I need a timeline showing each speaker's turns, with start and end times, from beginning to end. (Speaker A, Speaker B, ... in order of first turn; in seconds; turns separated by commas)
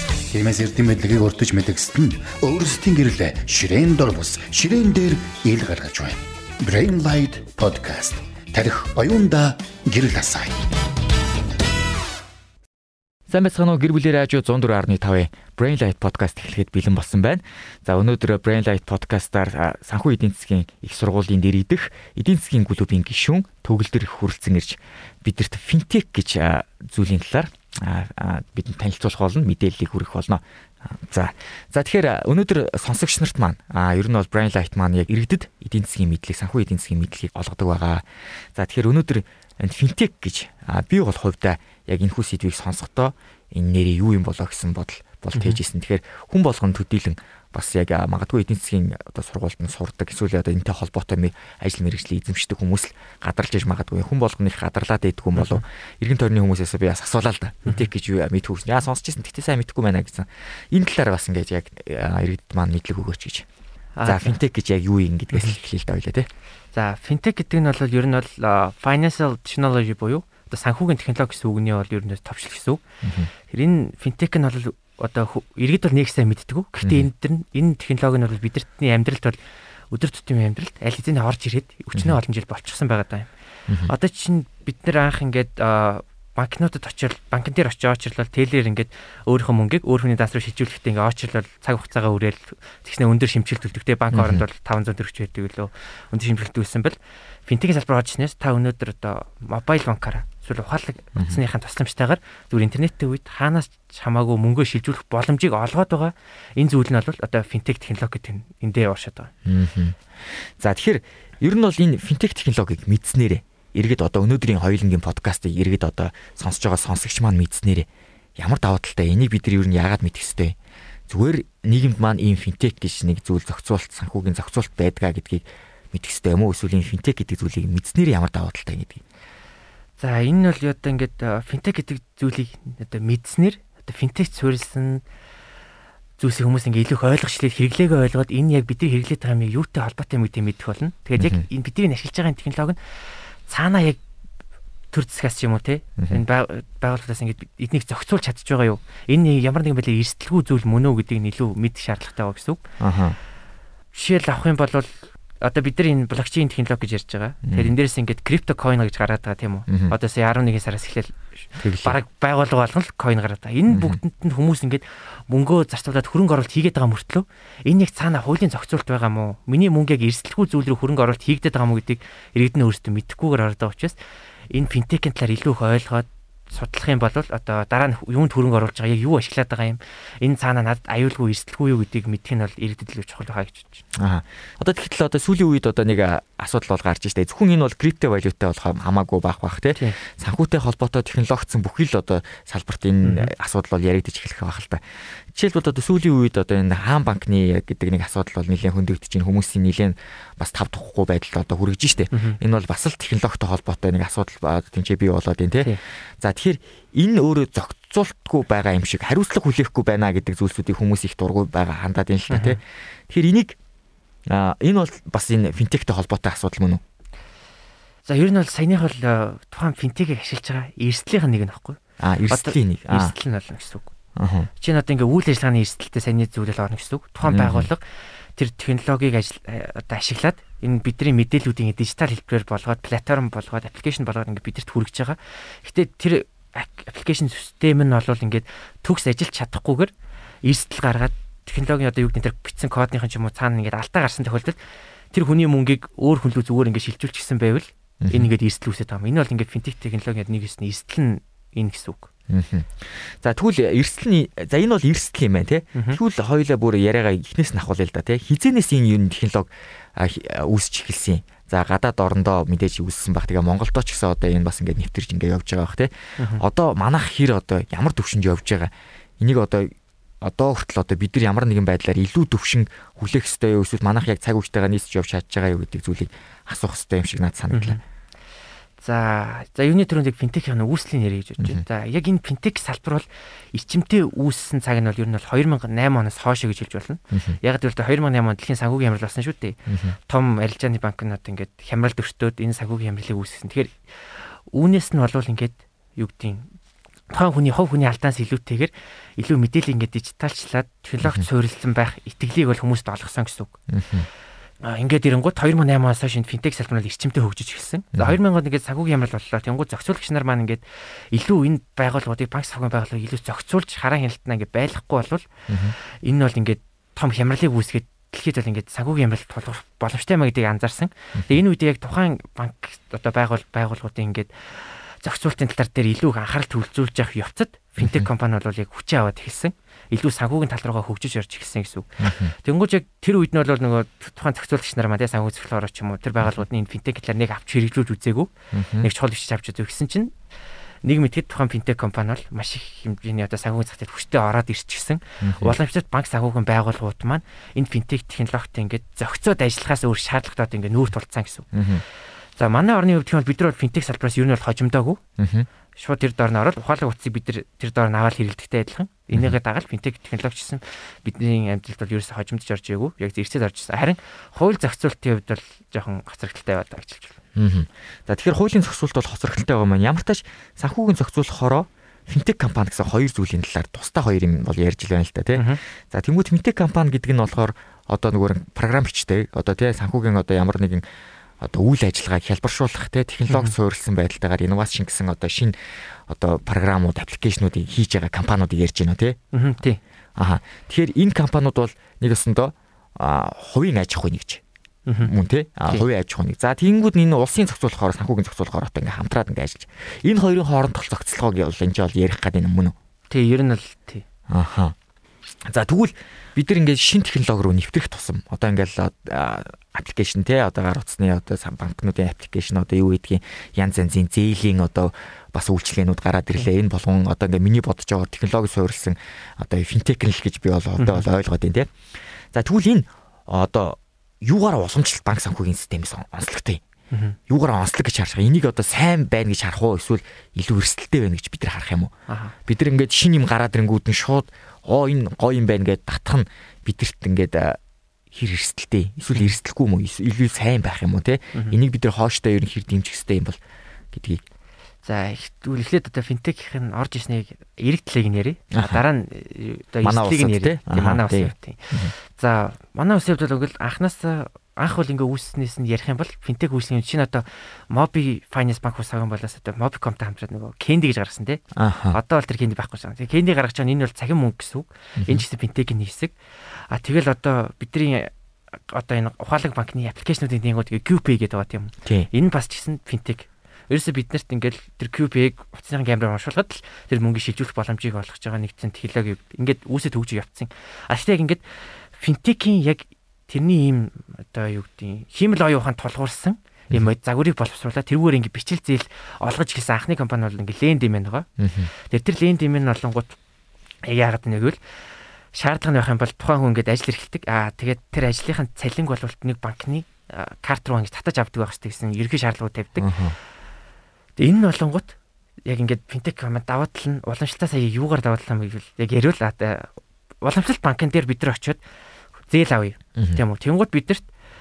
Speaker A: 0.3-10.6, Speaker B: 13.3-63.5, Speaker C: 55.4-55.6, Speaker C: 64.0-64.4, Speaker B: 64.1-66.3, Speaker C: 66.7-72.8, Speaker B: 73.0-73.3, Speaker C: 73.5-79.4, Speaker B: 76.8-77.1, Speaker C: 79.9-83.3, Speaker C: 83.8-97.0, Speaker B: 94.1-94.4, Speaker C: 97.5-109.3, Speaker B: 101.2-101.4, Speaker B: 109.5-120.6, Speaker B: 121.1-129.0, Speaker C: 130.0-135.0, Speaker C: 136.2-142.8, Speaker B: 141.2-141.4, Speaker C: 143.5-144.0, Speaker C: 144.9-152.6, Speaker B: 146.0-146.2, Speaker B: 152.8-153.2, Speaker C: 153.9-174.0, Speaker B: 157.5-157.7, Speaker B: 159.7-160.0, Speaker B: 161.6-162.0, Speaker B: 163.7-164.0, Speaker C: 174.5-183.8, Speaker B: 183.9-194.8, Speaker C: 193.0-193.3, Speaker B: 195.3-213.6, Speaker C: 202.1-202.4, Speaker C: 212.3-212.6, Speaker B: 214.3-216.8, Speaker C: 218.1-221.8, Speaker B: 222.0-223.1, Speaker C: 222.3-223.9, Speaker B: 224.2-224.5, Speaker C: 224.6-227.8, Speaker B: 227.2-227.7, Speaker C: 228.4-239.9, Speaker C: 240.4-244.6, Speaker C: 245.1-252.1, Speaker B: 248.0-248.3, Speaker B: 252.3-277.8, Speaker C: 266.2-266.4, Speaker C: 277.5-277.8, Speaker C: 278.8-296.5, Speaker B: 287.1-287.4, Speaker B: 289.7-290.0, Speaker C: 297.1-303.6, Speaker B: 303.7-304.1, Speaker C: 304.6-340.1, Speaker B: 315.5-315.8, Speaker B: 321.2-321.4, Speaker B: 327.8-328.1, Speaker B: 332.0-332.3, Speaker B: 338.5-338.9, Speaker C: 340.8-351.5, Speaker B: 345.2-345.6, Speaker B: 351.5-351.8, Speaker C: 352.4-355.0, Speaker B: 355.2-355.5, Speaker C: 355.8-367.2, Speaker B: 367.4-380.8, Speaker C: 375.3-375.6, Speaker B: 381.4-385.6, Speaker C: 383.3-383.6, Speaker B: 386.1-389.2, Speaker C: 389.3-389.8, Speaker B: 390.2-394.4, Speaker C: 394.9-395.1, Speaker B: 395.0-402.8, Speaker C: 403.1-404.1, Speaker B: 404.3-404.8, Speaker B: 405.4-421.7, Speaker C: 420.8-421.1, Speaker B: 422.3-426.6, Speaker C: 426.9-427.2, Speaker B: 427.3-431.9, Speaker C: 432.1-432.4, Speaker B: 432.5-437.6, Speaker B: 438.1-443.4, Speaker B: 443.9-444.2, Speaker C: 444.8-466.1, Speaker B: 448.5-448.8, Speaker B: 449.8-451.9, Speaker B: 461.6-462.0, Speaker B: 465.0-465.2, Speaker C: 466.7-468.1, Speaker C: 468.7-481.4, Speaker C: 481.9-493.2, Speaker B: 491.4-491.7, Speaker C: 493.8-494.6, Speaker C: 495.3-502.9, Speaker B: 502.8-503.2, Speaker C: 504.2-504.9, Speaker C: 505.5-509.7, Speaker C: 510.2-511.6, Speaker C: 512.3-514.1